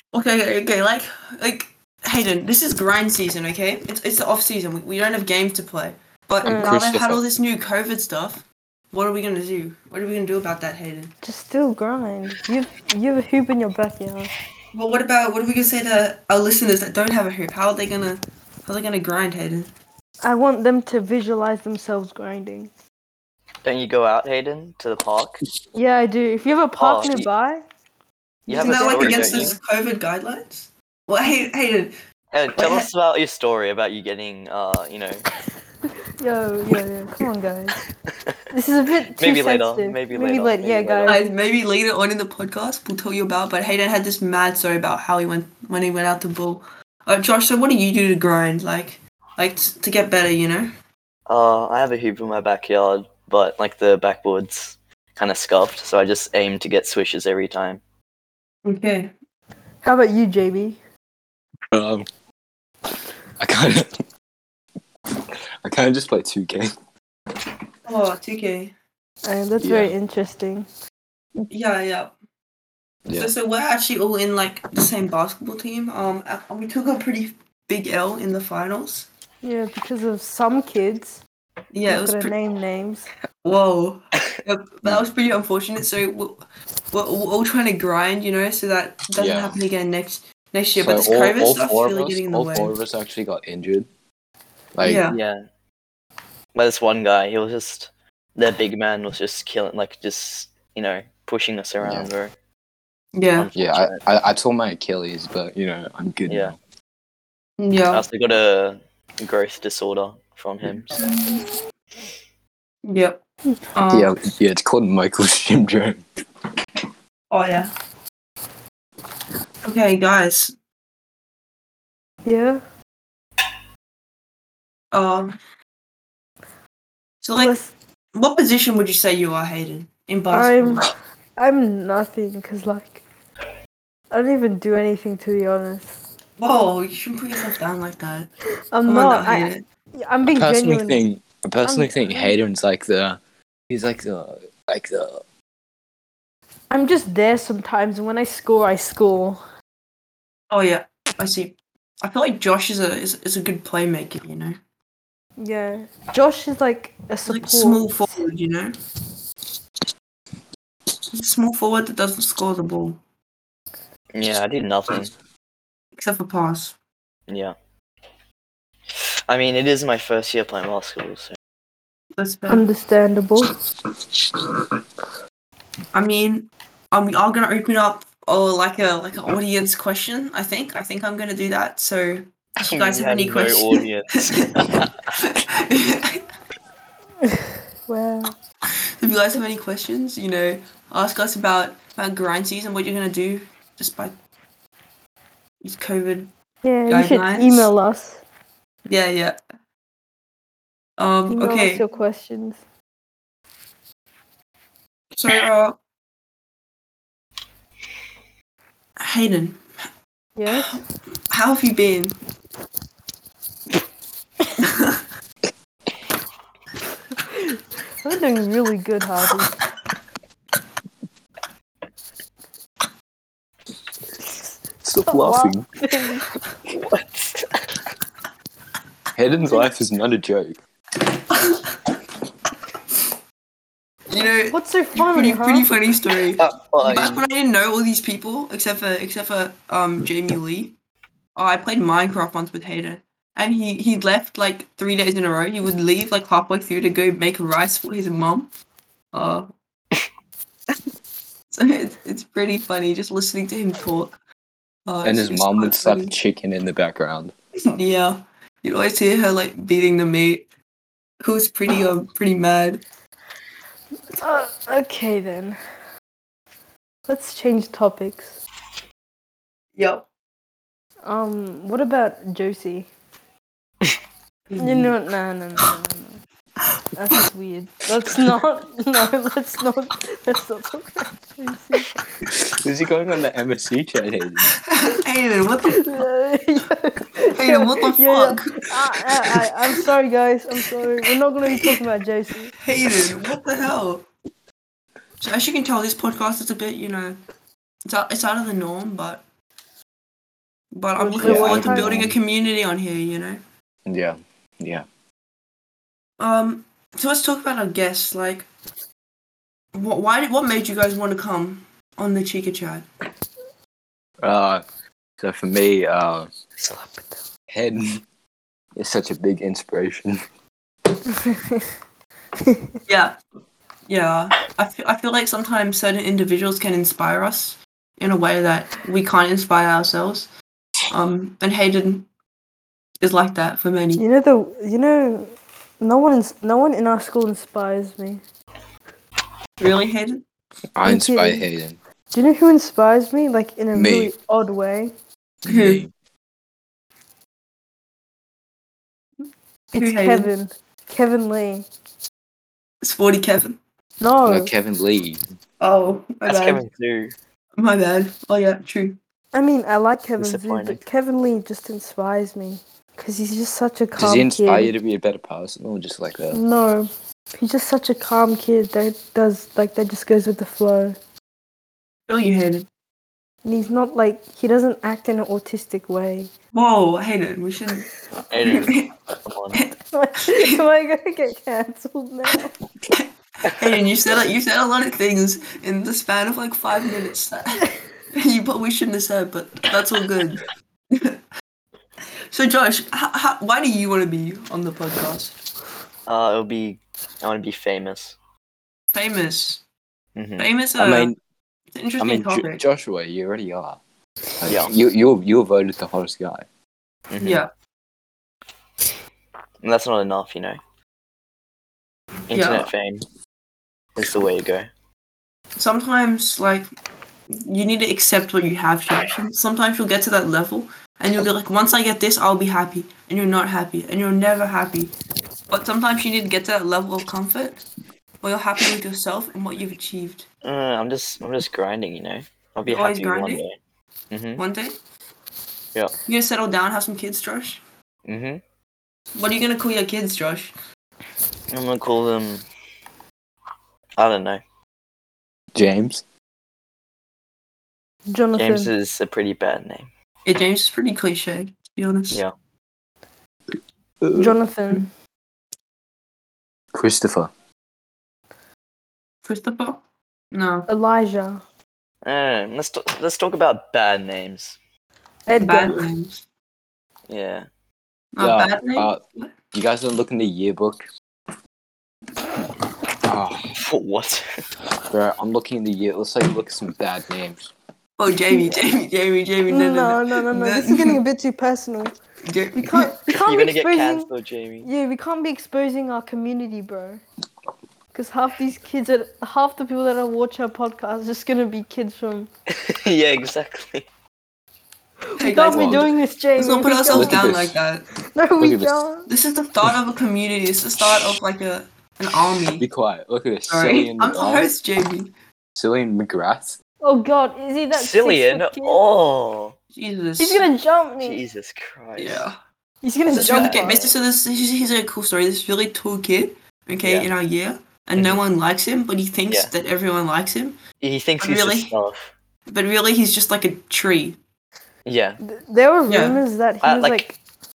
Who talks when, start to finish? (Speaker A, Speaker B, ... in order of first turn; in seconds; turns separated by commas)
Speaker A: 0.1-11.1, Speaker B: 6.4-7.2, Speaker C: 6.5-6.7, Speaker C: 11.2-14.3, Speaker A: 14.7-19.7, Speaker C: 20.2-22.7, Speaker D: 23.6-25.4, Speaker C: 25.7-27.6, Speaker D: 26.8-27.3, Speaker D: 28.5-29.6, Speaker A: 28.5-31.9, Speaker C: 28.5-29.6, Speaker D: 32.3-35.2, Speaker A: 32.5-32.9, Speaker C: 36.2-37.8, Speaker C: 38.5-41.2, Speaker D: 39.2-41.2, Speaker A: 41.0-50.7, Speaker D: 51.3-57.8, Speaker A: 58.6-59.1, Speaker C: 59.8-60.8, Speaker B: 61.7-62.1, Speaker B: 63.4-64.0, Speaker B: 65.6-66.7, Speaker A: 67.8-68.7, Speaker C: 69.2-70.7, Speaker B: 69.6-69.9, Speaker A: 71.5-72.1, Speaker B: 73.0-73.3, Speaker A: 73.1-79.1, Speaker C: 79.4-81.2, Speaker A: 81.7-82.3, Speaker C: 81.9-83.1, Speaker A: 83.4-92.7, Speaker B: 89.2-89.6, Speaker B: 90.8-93.9, Speaker B: 94.7-95.0, Speaker A: 94.8-95.2, Speaker D: 95.1-95.4, Speaker D: 96.5-102.3, Speaker B: 101.8-102.1, Speaker A: 103.1-103.5, Speaker D: 103.4-104.0, Speaker B: 103.5-106.6, Speaker D: 106.3-106.5, Speaker A: 107.6-108.0, Speaker D: 107.9-110.9, Speaker A: 110.9-111.4, Speaker A: 112.8-113.2, Speaker A: 113.7-114.1, Speaker B: 113.9-116.0, Speaker A: 117.3-117.7, Speaker A: 119.6-120.5, Speaker C: 122.2-122.6, Speaker A: 124.9-125.3, Speaker A: 127.2-127.6, Speaker C: 127.4-127.7, Speaker A: 128.1-130.9, Speaker C: 130.3-133.0, Speaker C: 134.1-136.0, Speaker A: 136.4-138.3, Speaker C: 138.7-141.0, Speaker A: 138.8-139.6, Speaker B: 140.3-143.2, Speaker C: 141.6-142.3, Speaker B: 143.7-145.2, Speaker C: 146.7-149.4, Speaker A: 150.5-154.6, Speaker C: 155.4-157.9, Speaker A: 157.3-158.8, Speaker A: 161.1-163.0, Speaker D: 164.1-165.1, Speaker A: 165.9-166.8, Speaker D: 167.3-167.5, Speaker D: 168.9-171.4, Speaker A: 172.2-172.7, Speaker C: 172.5-173.5, Speaker A: 175.9-186.2, Speaker D: 182.6-185.1, Speaker C: 187.2-188.3, Speaker A: 189.0-194.1, Speaker A: 195.6-196.3, Speaker C: 196.6-198.2, Speaker A: 196.9-197.7, Speaker A: 198.8-199.4, Speaker A: 201.0-201.8, Speaker C: 201.3-202.6, Speaker A: 205.1-205.8, Speaker A: 209.0-209.6, Speaker C: 210.3-210.8, Speaker A: 210.5-210.8, Speaker A: 211.3-212.2, Speaker A: 214.6-215.0, Speaker C: 217.3-219.6, Speaker B: 224.8-225.7, Speaker C: 225.0-226.2, Speaker D: 226.7-227.5, Speaker B: 229.1-230.6, Speaker A: 234.1-240.7, Speaker C: 234.5-235.7, Speaker D: 236.4-237.2, Speaker A: 241.3-248.5, Speaker A: 249.1-249.5, Speaker A: 251.5-254.2, Speaker A: 254.9-256.1, Speaker B: 255.0-257.3, Speaker A: 257.6-260.4, Speaker A: 261.2-262.8, Speaker C: 264.2-265.6, Speaker C: 267.1-268.4, Speaker A: 269.8-270.1, Speaker C: 271.0-272.9, Speaker A: 274.5-274.9, Speaker C: 274.6-276.2, Speaker C: 276.9-281.9, Speaker B: 282.5-284.5, Speaker A: 284.6-286.0, Speaker C: 285.8-292.5, Speaker A: 287.3-289.7, Speaker A: 292.6-294.0, Speaker A: 295.2-297.2, Speaker A: 297.9-299.2, Speaker A: 300.7-303.4, Speaker C: 301.0-302.0, Speaker B: 301.2-302.2, Speaker B: 303.9-304.9, Speaker A: 306.2-308.5, Speaker A: 309.7-312.8, Speaker B: 314.2-314.6, Speaker B: 315.2-316.3, Speaker C: 316.6-317.2, Speaker B: 317.5-318.0, Speaker B: 318.8-320.2, Speaker C: 321.1-321.7, Speaker C: 322.4-322.7, Speaker A: 322.9-323.1, Speaker A: 323.9-330.3, Speaker A: 330.9-332.1, Speaker A: 333.0-334.0, Speaker C: 333.9-338.2, Speaker A: 339.6-340.2, Speaker B: 340.8-341.8, Speaker C: 340.8-341.5, Speaker C: 342.1-344.9, Speaker B: 343.7-344.1, Speaker B: 345.4-345.9, Speaker A: 345.4-345.8, Speaker A: 349.7-350.3, Speaker C: 349.7-351.7, Speaker A: 352.8-353.6, Speaker C: 354.0-354.5, Speaker B: 354.2-355.2, Speaker A: 355.6-356.6, Speaker D: 356.2-357.1, Speaker A: 357.6-359.0, Speaker C: 359.3-364.7, Speaker D: 360.2-360.8, Speaker B: 364.0-366.4, Speaker C: 366.3-371.0, Speaker A: 372.1-372.7, Speaker C: 373.4-376.3, Speaker A: 376.5-377.9, Speaker D: 378.3-378.7, Speaker A: 378.4-378.9, Speaker D: 379.2-379.6, Speaker A: 379.5-380.6, Speaker C: 379.9-382.5, Speaker A: 382.9-391.2, Speaker A: 392.3-395.3, Speaker D: 396.1-398.1, Speaker A: 398.9-399.6, Speaker D: 400.1-400.5, Speaker A: 400.4-401.1, Speaker B: 400.8-401.2, Speaker A: 401.7-402.6, Speaker B: 402.0-403.8, Speaker B: 404.4-406.4, Speaker D: 404.4-404.7, Speaker D: 407.1-407.4, Speaker A: 407.2-407.5, Speaker D: 409.6-410.6, Speaker D: 412.3-413.0, Speaker A: 412.3-412.7, Speaker D: 413.9-414.7, Speaker A: 415.6-416.7, Speaker A: 417.3-424.9, Speaker A: 425.5-427.6, Speaker A: 428.2-430.2, Speaker D: 430.4-433.6, Speaker A: 432.7-433.4, Speaker D: 434.1-434.4, Speaker A: 434.4-434.8, Speaker A: 436.1-437.6, Speaker D: 438.1-438.4, Speaker A: 439.1-440.5, Speaker D: 441.5-442.4, Speaker D: 444.0-444.4, Speaker B: 445.5-446.0, Speaker C: 448.1-448.7, Speaker D: 448.3-449.9, Speaker A: 450.2-452.2, Speaker B: 454.0-454.3, Speaker C: 454.1-454.9, Speaker B: 456.7-457.3, Speaker A: 459.2-460.7, Speaker C: 460.7-461.4, Speaker D: 462.0-464.6, Speaker C: 465.3-465.9, Speaker A: 465.4-466.2, Speaker D: 467.1-467.5, Speaker A: 468.1-469.3, Speaker B: 468.2-469.0, Speaker B: 469.5-470.8, Speaker B: 473.1-473.5, Speaker D: 473.5-474.2, Speaker B: 474.9-477.5, Speaker A: 478.0-481.0, Speaker C: 479.5-481.9, Speaker A: 482.2-483.0, Speaker C: 482.6-484.1, Speaker D: 483.1-484.7, Speaker C: 484.6-487.0, Speaker C: 487.9-492.3, Speaker D: 492.5-493.9, Speaker C: 495.1-497.3, Speaker A: 495.2-497.8, Speaker B: 495.5-495.9, Speaker B: 496.9-497.6, Speaker C: 498.1-499.1, Speaker B: 498.4-498.8, Speaker A: 499.1-502.7, Speaker B: 502.6-504.5, Speaker A: 503.5-505.1, Speaker B: 505.6-506.6, Speaker C: 506.8-508.8, Speaker D: 507.7-509.6, Speaker A: 509.7-510.4, Speaker C: 510.2-511.2, Speaker D: 511.0-512.3, Speaker A: 512.0-512.3, Speaker C: 512.8-513.9, Speaker D: 513.1-513.9, Speaker A: 513.1-520.6, Speaker D: 516.8-517.1, Speaker D: 520.8-522.1, Speaker A: 521.2-521.7, Speaker A: 522.5-524.2, Speaker D: 524.9-525.2, Speaker C: 525.2-527.2, Speaker A: 525.9-526.2, Speaker D: 526.6-527.0